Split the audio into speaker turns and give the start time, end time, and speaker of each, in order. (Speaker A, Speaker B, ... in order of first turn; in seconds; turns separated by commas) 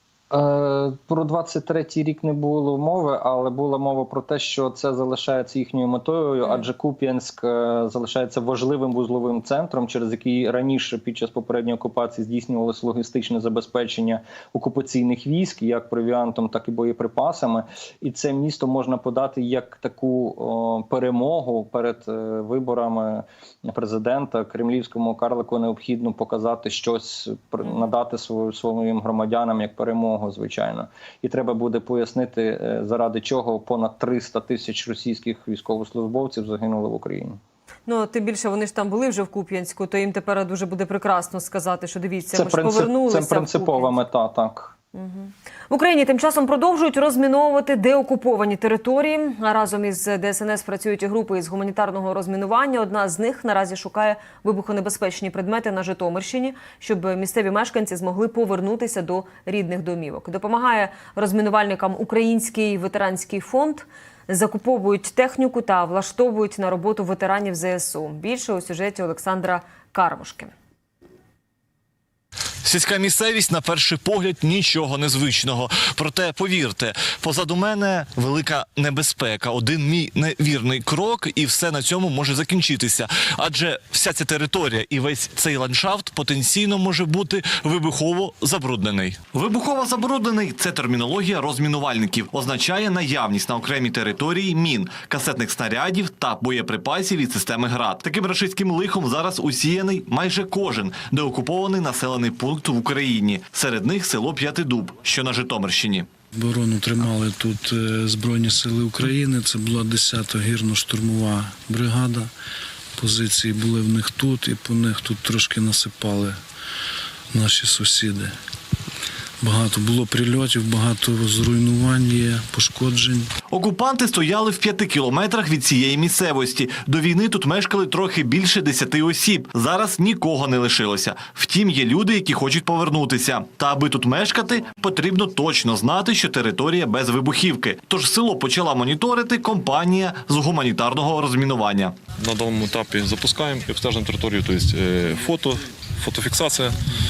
Speaker A: 0.3-37.4, Speaker B: 37.9-44.0, Speaker A: 42.3-44.7, Speaker B: 45.0-70.5, Speaker C: 72.6-106.1, Speaker D: 111.3-112.1, Speaker D: 113.8-116.2, Speaker D: 117.3-117.8, Speaker D: 119.4-123.2, Speaker C: 123.5-142.0, Speaker E: 142.2-146.8